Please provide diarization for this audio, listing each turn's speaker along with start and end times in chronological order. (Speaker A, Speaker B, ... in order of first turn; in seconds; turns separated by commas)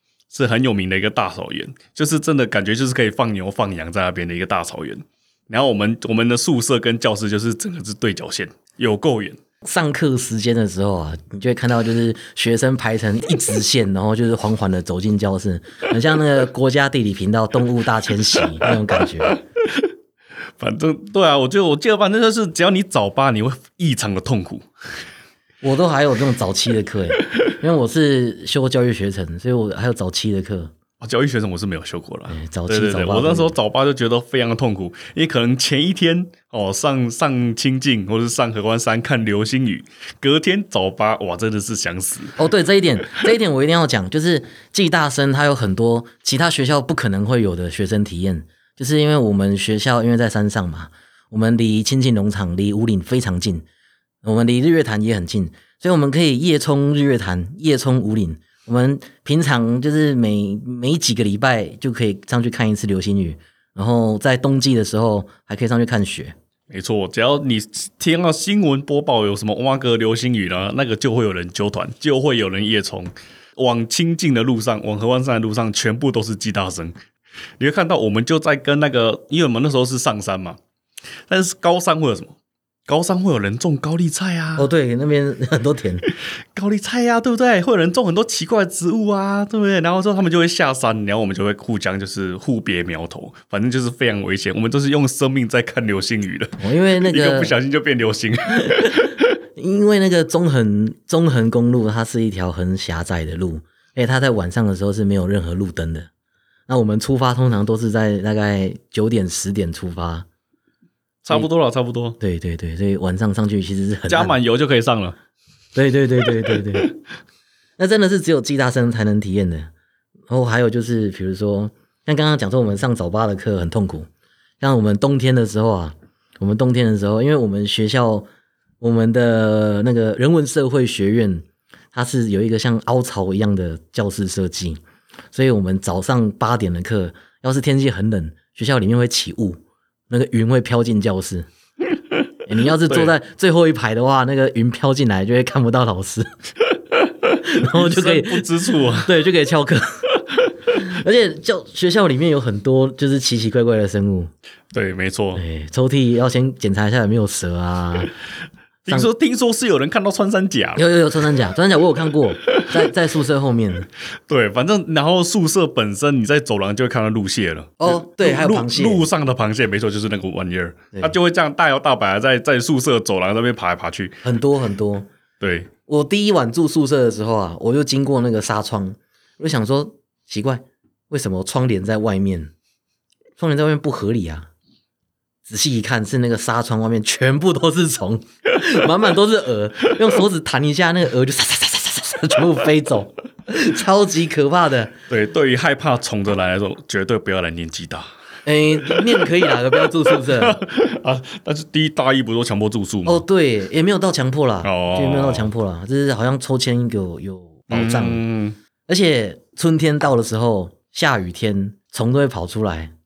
Speaker A: 0.3-9.4, Speaker B: 9.6-19.4, Speaker A: 19.3-19.9, Speaker A: 20.6-24.7, Speaker B: 25.6-30.7, Speaker A: 31.0-42.4, Speaker B: 32.3-33.5, Speaker B: 42.4-53.6, Speaker B: 54.2-66.3, Speaker A: 66.7-77.0, Speaker A: 77.6-80.6, Speaker A: 81.3-82.3, Speaker A: 82.9-84.7, Speaker B: 84.6-86.1, Speaker A: 86.5-99.2, Speaker B: 96.6-97.5, Speaker B: 98.6-106.1, Speaker B: 106.7-110.3, Speaker A: 111.2-112.2, Speaker B: 112.2-114.3, Speaker A: 114.1-115.2, Speaker B: 115.8-116.9, Speaker B: 117.8-119.7, Speaker B: 120.3-124.1, Speaker B: 124.6-128.3, Speaker B: 128.8-134.8, Speaker B: 135.3-139.6, Speaker B: 140.1-141.5, Speaker B: 142.5-146.3, Speaker A: 142.9-143.1, Speaker B: 147.3-150.1, Speaker A: 147.6-149.1, Speaker B: 150.7-154.3, Speaker A: 154.7-155.4, Speaker B: 155.3-158.1, Speaker A: 158.9-160.8, Speaker B: 160.8-163.9, Speaker A: 164.3-174.2, Speaker B: 167.8-169.1, Speaker B: 174.2-175.1, Speaker A: 175.4-175.7, Speaker B: 175.9-182.5, Speaker B: 183.4-184.5, Speaker B: 185.5-194.9, Speaker A: 195.1-198.1, Speaker B: 198.5-200.6, Speaker A: 198.9-199.2, Speaker A: 200.1-203.2, Speaker B: 203.1-208.2, Speaker A: 204.6-205.5, Speaker A: 207.7-208.6, Speaker B: 208.9-212.9